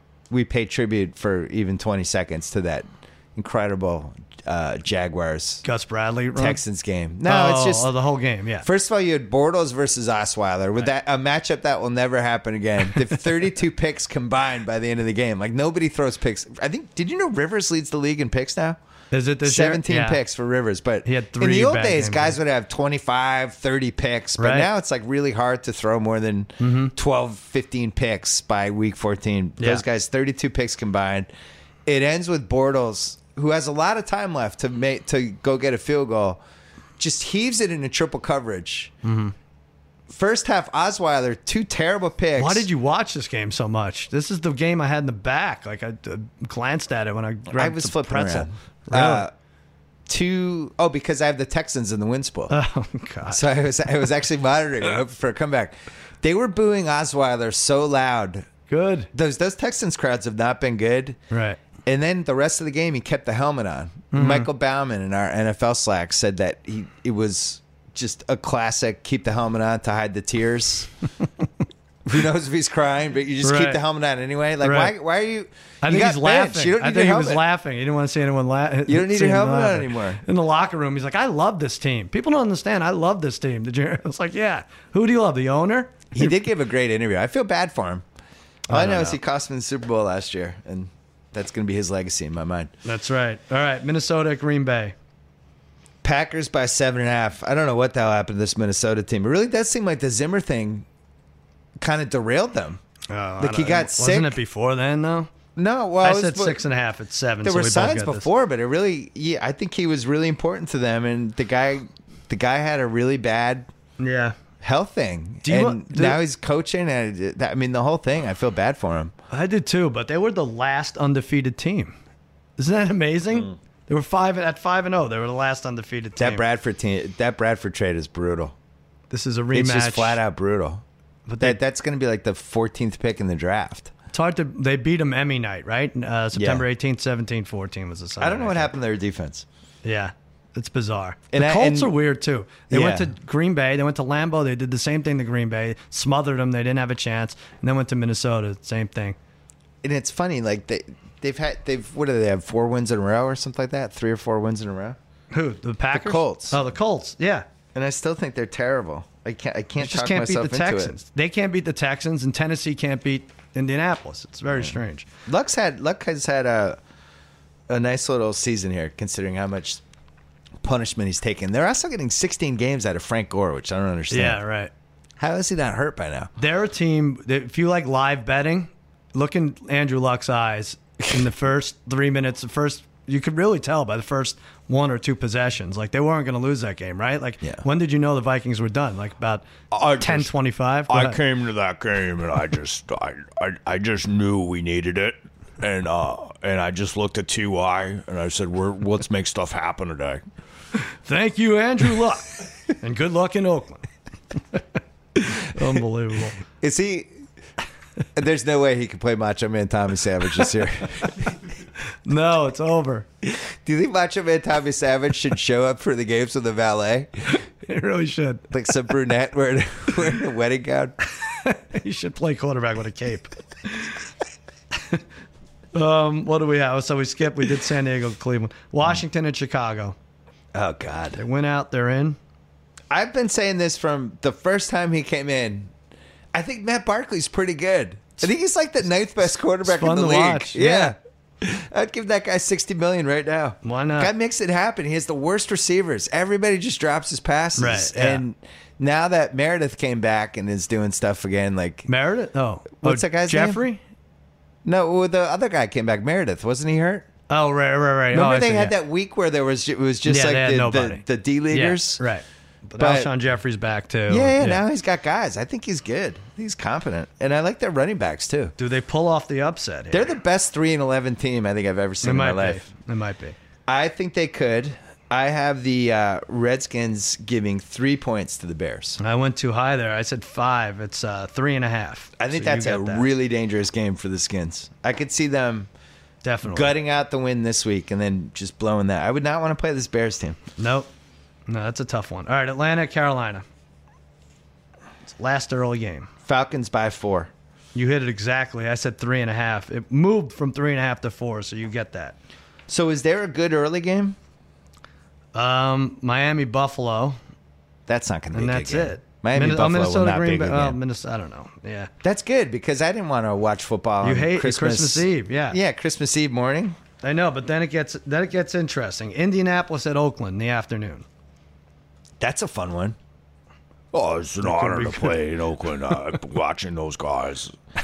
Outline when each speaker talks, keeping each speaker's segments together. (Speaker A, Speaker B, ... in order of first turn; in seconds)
Speaker A: 0.3-5.6, 6.3-7.9, 8.6-18.8, 19.4-31.3, 31.9-36.4, 37.0-38.9, 40.1-42.7, 47.5-49.3, 50.1-52.5, 53.3-58.5, 59.1-61.2, 61.9-70.9, 72.0-77.4, 78.9-80.2, 86.1-88.0, 88.7-92.7, 96.0-100.8, 101.8-102.8, 103.4-104.3, 105.5-106.6, 107.4-113.7, 114.6-119.1, 126.2-128.5, 129.5-130.8, 131.4-133.9, 136.3-136.6, 138.2-139.4, 141.3-141.9, 142.7-143.1, 149.8-155.0, 155.9-156.6, 157.7-161.0, 165.3-166.8, 167.7-169.8, 170.6-174.4, 175.2-176.3, 206.6-207.1, 208.1-211.3, 213.2-217.4, 218.5-221.0, 230.5-231.2, 232.9-235.7, 236.3-251.9, 252.8-253.6, 254.6-257.1, 258.1-262.0, 262.8-263.1, 264.1-268.5, 269.9-272.7, 273.7-279.0, 282.2-285.7, 286.4-290.4, 296.2-297.3, 302.7-304.1, 307.9-310.8, 312.0-316.8, 322.2-322.9
Speaker B: 5.6-6.6, 7.2-8.7, 19.1-20.2, 21.0-22.4, 24.4-24.7, 26.6-26.9, 29.6-29.8, 39.0-39.3, 42.4-49.2, 52.5-53.4, 58.7-59.1, 61.3-61.6, 64.1-64.5, 73.4-73.8, 74.6-74.9, 75.8-86.3, 88.7-89.2, 92.8-94.9, 103.1-105.3, 106.0-108.3, 114.0-114.3, 115.4-116.2, 119.3-121.9, 122.6-126.4, 129.1-130.2, 131.3-131.6, 134.1-138.7, 139.8-149.2, 155.3-157.4, 159.8-165.1, 174.1-174.7, 176.4-191.2, 200.8-203.8, 205.2-206.4, 212.0-213.1, 217.3-218.5, 221.1-224.0, 224.7-225.0, 225.7-229.9, 231.2-232.2, 239.6-240.9, 243.6-244.1, 247.6-248.2, 251.9-253.8, 257.3-258.7, 260.1-264.6, 268.6-270.1, 272.0-273.4, 279.0-283.1, 286.2-286.7, 290.6-290.9, 291.5-293.4, 295.1-296.1, 297.7-302.2, 305.3-307.2, 308.3-311.9, 314.0-315.6, 317.0-321.0, 324.4-325.2
Speaker C: 189.7-190.3, 190.9-200.2, 323.9-327.6